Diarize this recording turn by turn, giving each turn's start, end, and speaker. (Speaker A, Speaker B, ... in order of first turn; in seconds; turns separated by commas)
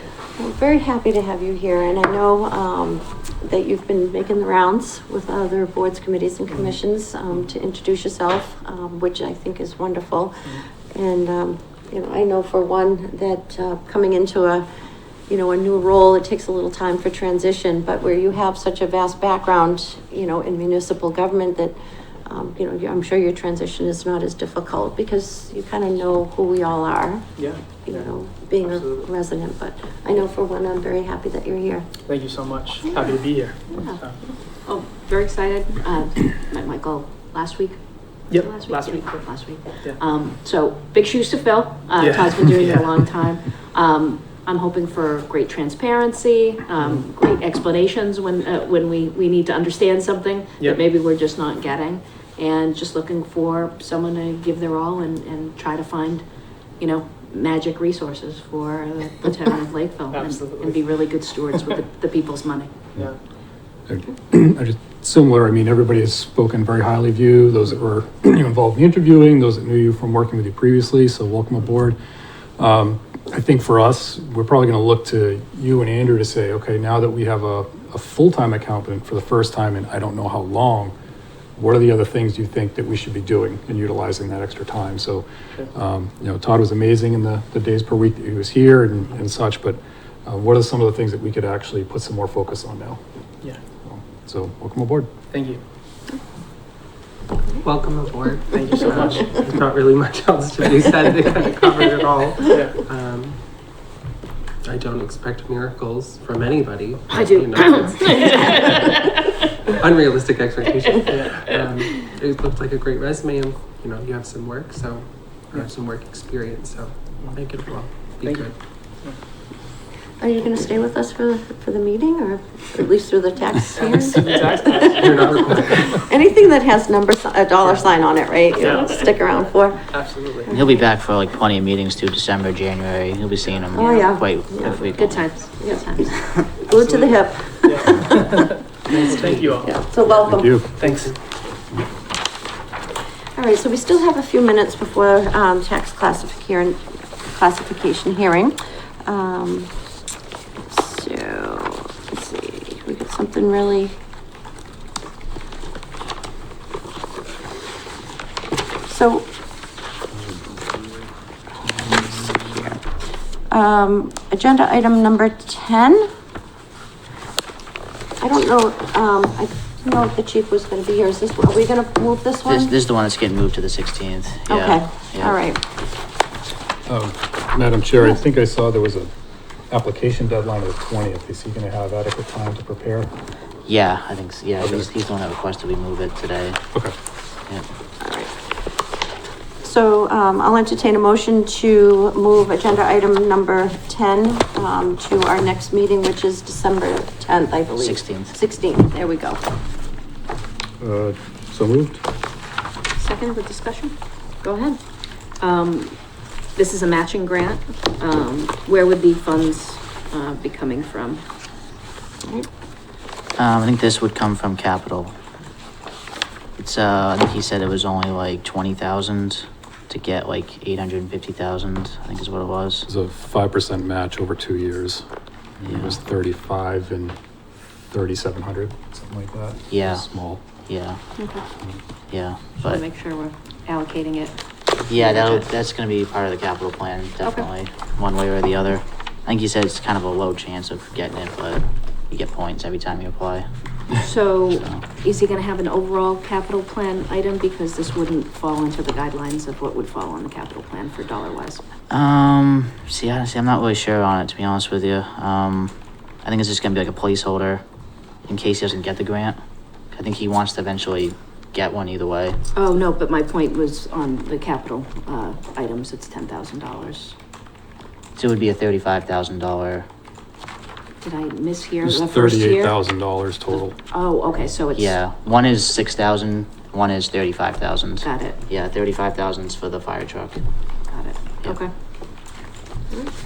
Speaker A: 0.4-14.7, Speaker B: 6.5-6.8, Speaker A: 15.3-21.7, Speaker A: 22.3-31.9, Speaker B: 27.4-29.1, Speaker B: 32.0-34.2, Speaker C: 33.7-34.0, Speaker C: 34.6-37.8, Speaker B: 38.3-40.0, Speaker C: 38.3-56.2, Speaker B: 42.0-43.1, Speaker B: 50.6-50.8, Speaker C: 56.8-62.7, Speaker B: 60.1-61.8, Speaker D: 63.9-72.0, Speaker D: 72.6-80.9, Speaker D: 81.6-93.0, Speaker D: 93.8-95.1, Speaker B: 95.3-95.6, Speaker E: 97.6-103.4, Speaker B: 98.5-99.4, Speaker B: 102.4-102.8, Speaker E: 104.6-109.0, Speaker C: 107.1-109.4, Speaker E: 109.7-118.5, Speaker B: 111.1-111.6, Speaker B: 118.2-119.2, Speaker A: 120.2-129.9, Speaker B: 123.7-126.0, Speaker E: 124.9-125.9, Speaker B: 127.6-127.9, Speaker B: 128.5-129.3, Speaker B: 129.9-130.5, Speaker A: 130.4-130.8, Speaker F: 130.5-135.3, Speaker A: 133.7-134.9, Speaker C: 133.8-134.2, Speaker C: 134.9-136.4, Speaker A: 135.5-135.8, Speaker A: 136.4-138.4, Speaker B: 136.8-141.1, Speaker E: 138.9-141.1, Speaker A: 139.6-140.6, Speaker D: 140.3-140.8, Speaker A: 143.3-149.7, Speaker A: 150.7-153.9, Speaker A: 158.9-159.2, Speaker A: 161.9-162.8, Speaker A: 163.5-166.1, Speaker A: 168.2-172.7, Speaker F: 172.4-175.4, Speaker A: 174.5-175.6, Speaker D: 176.9-179.1, Speaker D: 179.7-183.1, Speaker F: 183.7-186.6, Speaker D: 184.6-184.9, Speaker A: 188.0-188.3, Speaker A: 189.6-199.4, Speaker F: 197.8-198.3, Speaker D: 200.8-202.0, Speaker C: 203.0-203.9, Speaker A: 204.4-204.7, Speaker C: 205.4-205.9, Speaker C: 206.6-211.2, Speaker F: 213.4-215.1, Speaker F: 216.6-222.9, Speaker D: 222.9-225.0, Speaker F: 225.6-226.0, Speaker D: 225.7-227.2, Speaker D: 227.9-230.4, Speaker F: 229.7-230.0, Speaker F: 230.7-231.0, Speaker C: 231.2-231.4, Speaker F: 232.1-232.8, Speaker C: 232.6-234.3, Speaker C: 234.9-235.5, Speaker F: 234.9-243.5, Speaker C: 237.2-237.5, Speaker C: 243.9-251.6, Speaker F: 244.5-244.8, Speaker F: 251.9-257.6, Speaker F: 258.2-259.4, Speaker F: 259.9-262.4, Speaker C: 262.5-267.1, Speaker F: 268.1-269.9, Speaker C: 271.0-272.9, Speaker D: 271.8-273.8, Speaker C: 273.9-275.0, Speaker F: 274.7-280.4, Speaker C: 278.0-278.5, Speaker C: 280.9-281.7